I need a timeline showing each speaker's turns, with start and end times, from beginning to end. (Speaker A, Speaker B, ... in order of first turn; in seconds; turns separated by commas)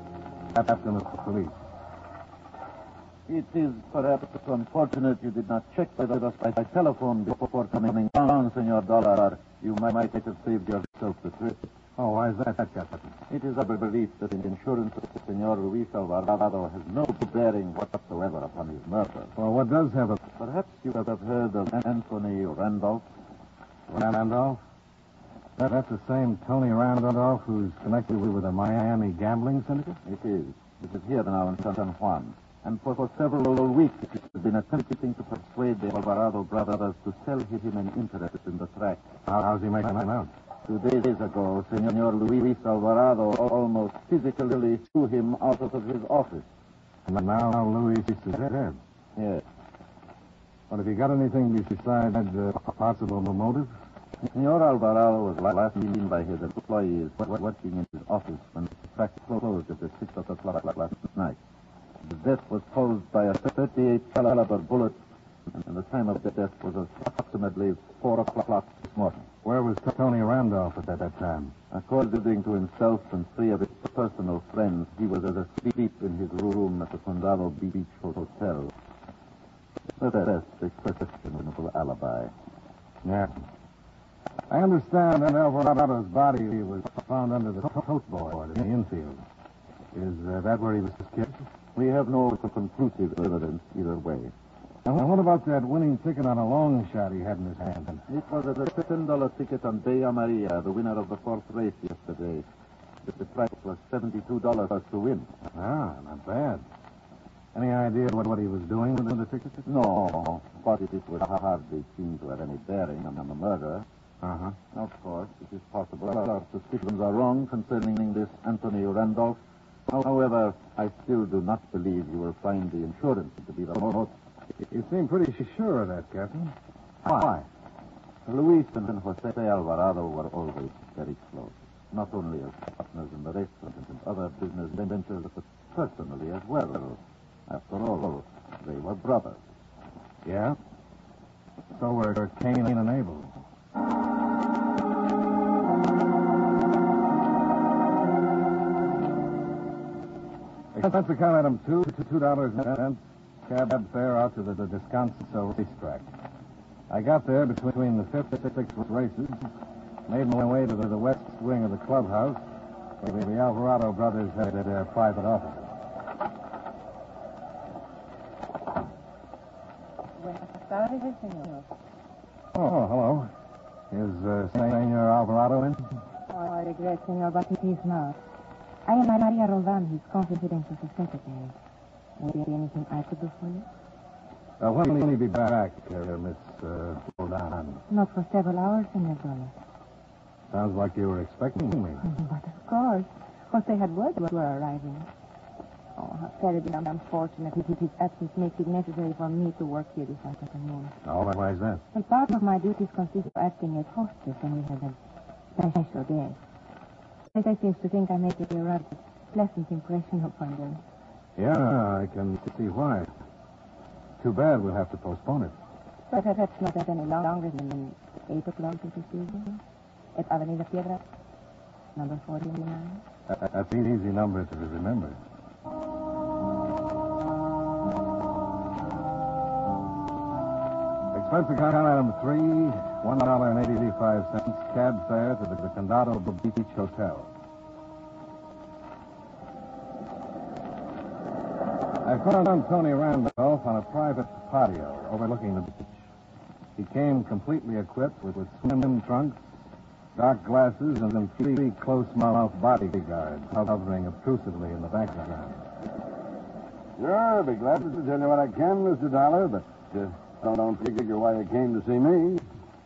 Speaker A: 0.5-1.6, Speaker B: 3.3-11.7, Speaker A: 12.0-13.1, Speaker B: 13.3-19.3, Speaker A: 19.4-20.2, Speaker B: 20.4-23.1, Speaker A: 23.9-24.6, Speaker A: 25.6-30.0, Speaker B: 30.0-39.0, Speaker A: 39.2-40.3, Speaker B: 40.6-46.5, Speaker A: 47.1-48.8, Speaker B: 49.1-49.4, Speaker A: 50.7-53.7, Speaker B: 54.2-61.4, Speaker B: 62.0-65.0, Speaker B: 65.5-69.2, Speaker A: 69.4-71.5, Speaker B: 71.7-78.7, Speaker B: 80.0-82.3, Speaker A: 83.0-83.4, Speaker A: 84.5-89.2, Speaker A: 89.9-91.4, Speaker B: 91.7-94.3, Speaker A: 94.8-98.0, Speaker B: 98.1-102.5, Speaker B: 103.0-105.3, Speaker A: 105.5-106.6, Speaker A: 107.5-109.6, Speaker B: 109.6-113.8, Speaker A: 114.2-114.5, Speaker B: 114.7-124.1, Speaker A: 124.7-126.5, Speaker A: 127.0-127.4, Speaker B: 128.2-139.4, Speaker A: 140.2-140.6, Speaker A: 141.7-143.3, Speaker A: 150.7-156.1, Speaker A: 156.9-159.4, Speaker A: 160.1-162.4, Speaker A: 163.0-165.7, Speaker C: 170.2-171.7, Speaker A: 172.5-173.3, Speaker A: 173.9-175.9, Speaker C: 176.3-178.2, Speaker C: 178.8-181.5, Speaker C: 182.2-183.7, Speaker A: 184.6-187.8, Speaker C: 187.9-189.5, Speaker A: 190.5-192.1, Speaker C: 192.0-195.1, Speaker C: 195.9-200.9, Speaker A: 201.0-201.8, Speaker C: 201.9-205.0, Speaker C: 205.5-206.4, Speaker C: 207.3-210.8, Speaker A: 211.3-213.1, Speaker A: 214.2-215.5, Speaker C: 216.1-219.6, Speaker C: 220.1-221.0, Speaker C: 221.9-223.0, Speaker A: 223.3-225.2, Speaker A: 231.1-237.3, Speaker A: 242.0-246.1, Speaker A: 246.8-249.4, Speaker A: 250.1-255.6, Speaker D: 257.0-262.4